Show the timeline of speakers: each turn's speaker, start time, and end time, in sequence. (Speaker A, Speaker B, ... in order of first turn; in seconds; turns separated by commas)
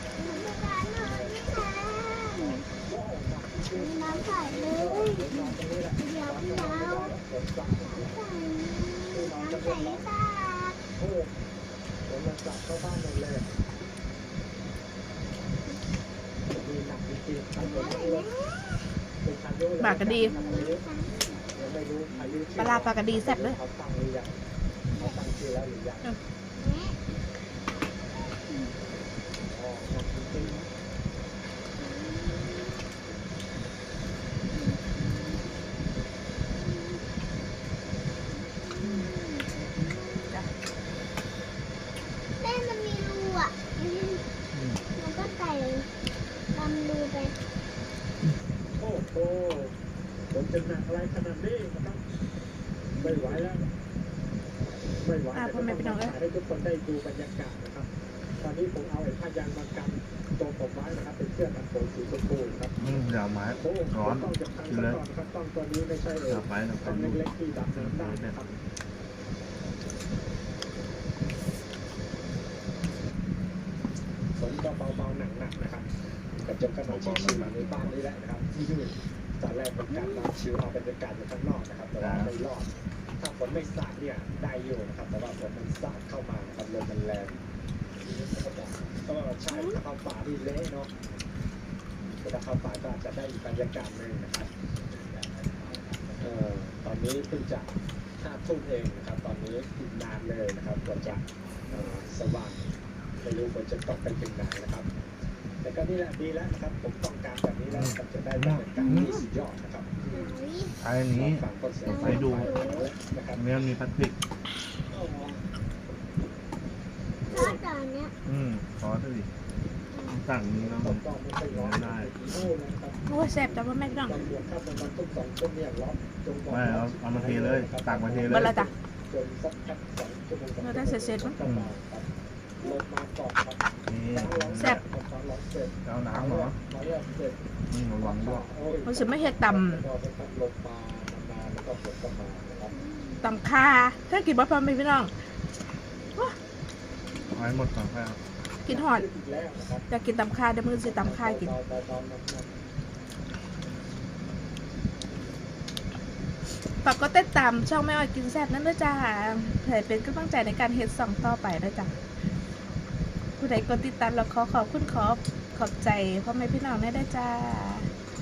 Speaker A: 0.2-2.7, Speaker B: 1.0-1.7, Speaker B: 2.3-8.1, Speaker A: 3.7-7.2, Speaker A: 7.8-10.8, Speaker B: 9.1-10.1, Speaker B: 11.0-11.3, Speaker B: 12.1-13.5, Speaker B: 16.5-18.3, Speaker A: 17.6-18.9, Speaker B: 19.2-20.9, Speaker C: 19.8-20.3, Speaker A: 20.1-21.5, Speaker B: 21.5-24.4, Speaker C: 22.6-23.6, Speaker A: 24.9-25.2, Speaker B: 25.0-26.1, Speaker A: 26.6-27.0, Speaker A: 28.2-28.8, Speaker B: 29.4-30.6, Speaker A: 31.8-32.8, Speaker A: 34.5-35.5, Speaker A: 36.6-37.0, Speaker A: 38.3-40.4, Speaker A: 42.4-44.2, Speaker D: 44.5-44.8, Speaker A: 45.0-45.9, Speaker A: 46.5-47.4, Speaker B: 48.8-49.8, Speaker B: 50.3-52.0, Speaker A: 53.0-53.3, Speaker B: 53.0-53.6, Speaker B: 55.0-63.0, Speaker C: 55.3-56.2, Speaker D: 62.8-65.0, Speaker B: 63.5-68.5, Speaker D: 66.3-67.2, Speaker D: 67.8-68.6, Speaker B: 74.4-87.4, Speaker D: 76.9-78.0, Speaker D: 82.0-82.3, Speaker B: 88.0-90.9, Speaker C: 89.5-89.8, Speaker B: 92.1-102.7, Speaker B: 103.2-104.9, Speaker B: 105.6-110.3, Speaker D: 107.7-109.2, Speaker C: 108.8-109.2, Speaker A: 110.1-110.8, Speaker D: 110.8-112.5, Speaker B: 111.1-113.4, Speaker A: 111.9-112.9, Speaker D: 113.3-114.2, Speaker B: 114.9-115.4, Speaker A: 117.3-118.1, Speaker B: 117.3-117.6, Speaker D: 118.2-119.3, Speaker A: 119.9-120.2, Speaker D: 120.1-122.2, Speaker B: 120.6-132.1, Speaker C: 123.1-124.2, Speaker D: 126.5-128.5, Speaker C: 128.3-128.7, Speaker C: 130.6-131.3, Speaker D: 131.4-131.7, Speaker B: 132.6-137.4, Speaker D: 133.9-134.8, Speaker D: 135.8-136.6, Speaker D: 137.7-138.5, Speaker B: 138.0-142.8, Speaker C: 138.9-139.8, Speaker A: 142.7-143.3, Speaker C: 143.2-145.1, Speaker D: 147.3-148.2, Speaker C: 148.6-149.1, Speaker B: 148.7-149.9, Speaker C: 149.9-151.5, Speaker B: 150.8-152.5, Speaker C: 156.8-161.9, Speaker C: 163.4-167.9